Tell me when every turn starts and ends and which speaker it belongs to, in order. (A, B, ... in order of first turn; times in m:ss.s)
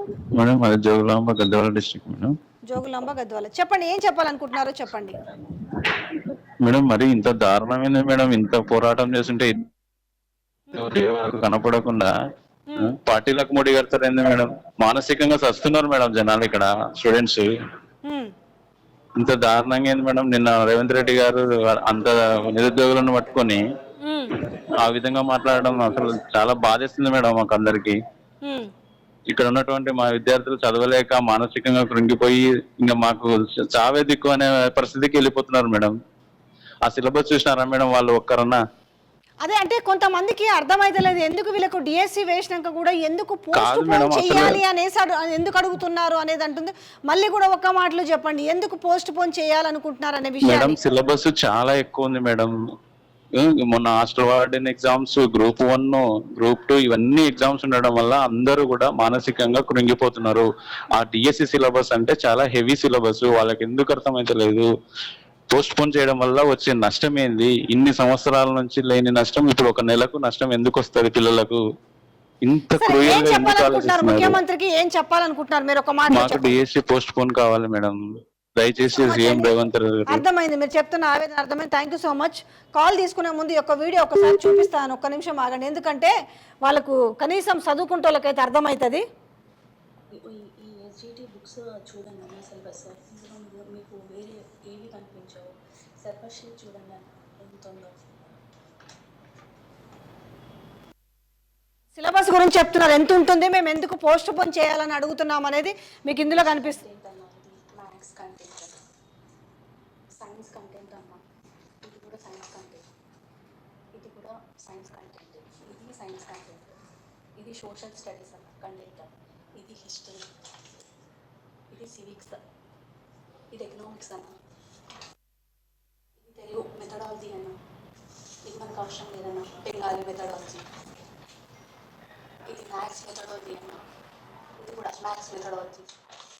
0:00.3-0:02.3 A
0:02.7-0:05.2 B
0:05.6-0:09.5 A
0:10.7-0:12.1 A
0:12.7-0:12.9 B
0:12.8-0:17.5 A
0:18.0-0:18.3 B
0:19.2-0:23.6 A
0:24.0-0:24.4 B
0:24.4-0:28.0 A
0:28.4-0:28.7 B
0:29.3-0:35.9 A
0:36.8-0:38.6 A
0:39.4-0:50.8 B
0:43.5-0:44.6 A
0:50.4-0:52.5 A
0:53.4-1:04.6 A
1:05.5-1:11.6 A
1:12.4-1:14.4 A
1:12.8-1:16.6 B
1:16.1-1:18.0 A
1:18.6-1:20.2 A
1:18.8-1:19.5 B
1:20.1-1:26.1 B
1:26.6-1:29.0 B
1:30.2-1:38.3 C
1:41.9-1:46.8 B
1:46.2-1:48.8 C
1:50.2-1:51.2 C
1:51.8-1:52.8 C
1:53.9-1:56.7 C
1:57.4-2:00.3 C
2:01.7-2:02.4 C
2:03.5-2:04.3 C
2:06.2-2:07.6 C
2:08.4-2:10.6 C
2:12.5-2:13.8 C
2:14.6-2:15.9 C